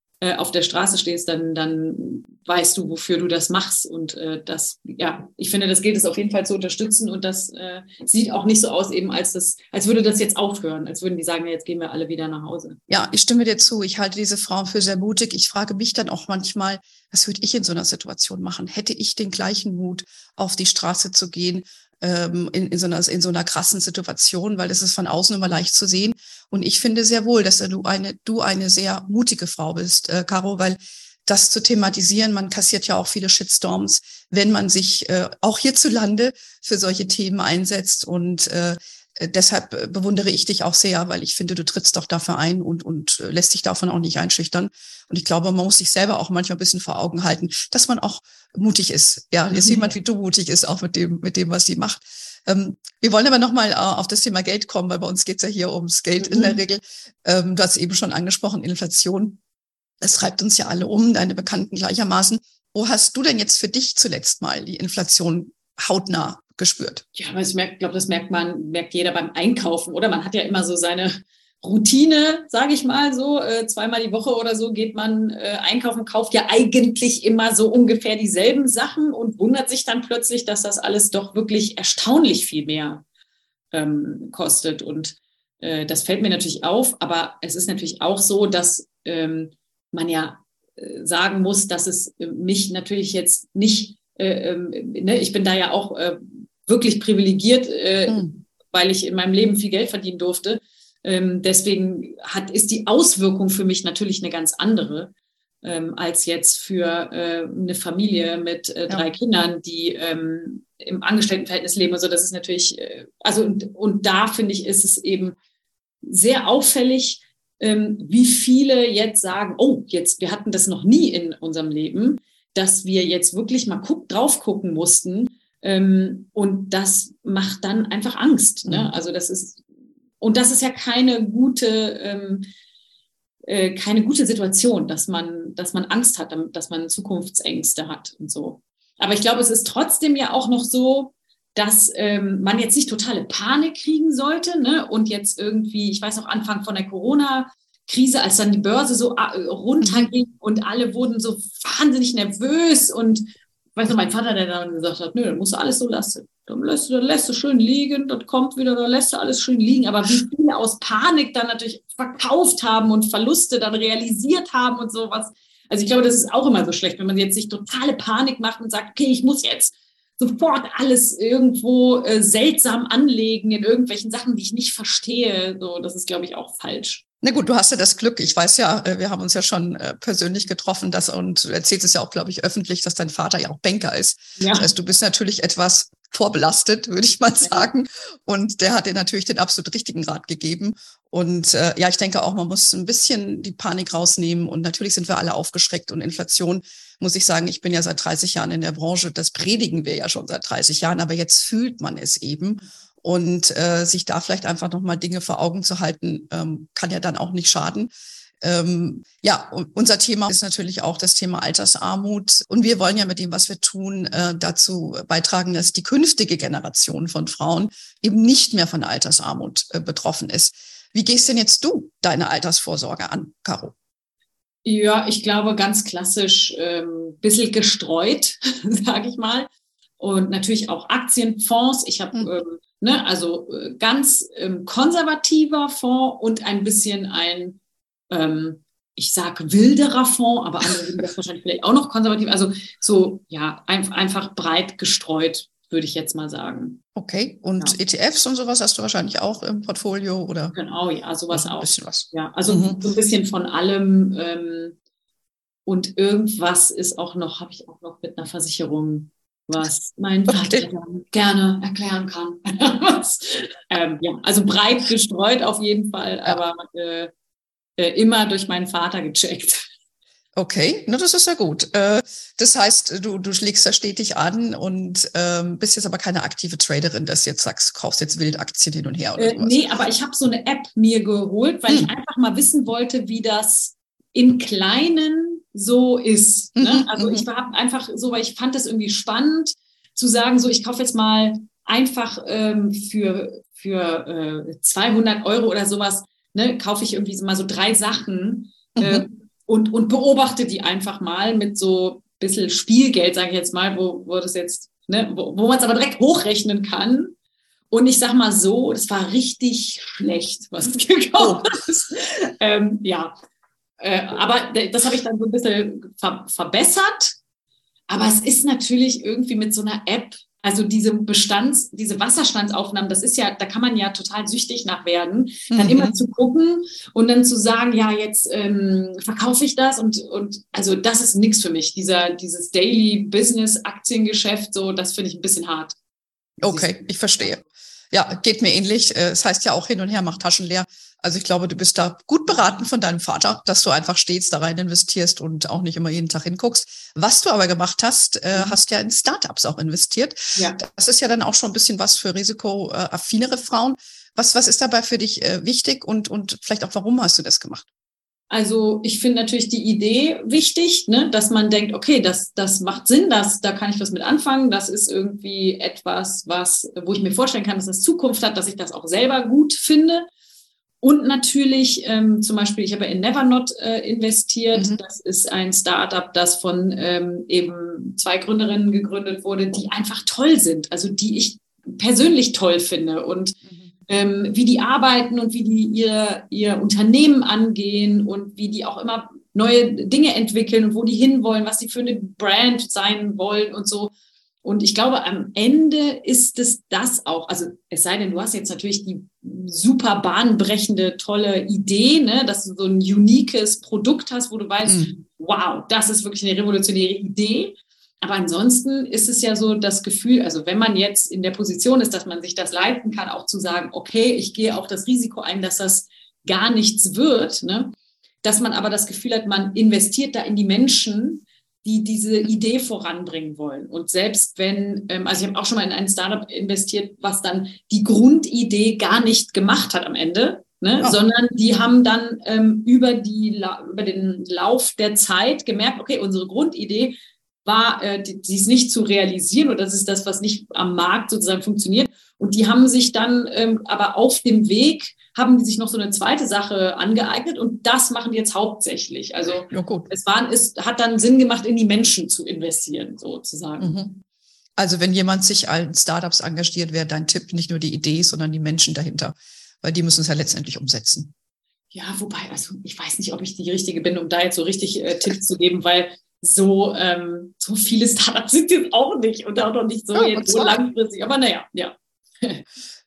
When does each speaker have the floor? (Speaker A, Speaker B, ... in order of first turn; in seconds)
Speaker A: 0.2-12.8, 49.5-50.0, 56.2-56.6, 67.2-83.0, 83.7-105.1, 105.6-115.3, 116.0-129.6, 130.2-132.5, 133.5-177.0, 184.4-184.8, 187.4-187.7, 224.7-237.6, 238.1-246.8, 250.5-254.8, 255.7-267.1, 267.8-269.6, 279.2-307.1, 307.7-313.1, 313.8-317.2, 317.9-335.8, 336.4-337.5, 342.3-342.6, 348.3-348.6, 350.4-350.6, 358.3-370.1, 370.8-393.9, 394.4-453.8, 461.7-472.4
Speaker B: 12.9-59.4, 60.0-67.0, 128.7-128.9, 149.8-150.1, 177.2-207.9, 208.4-223.7, 247.0-250.6, 251.3-252.8, 260.3-260.6, 270.4-279.5, 286.6-287.3, 298.8-299.1, 311.2-311.4, 325.5-326.0, 336.4-357.6, 374.5-374.8, 404.6-404.9, 449.5-449.9, 453.6-454.0, 454.6-461.1, 469.9-470.6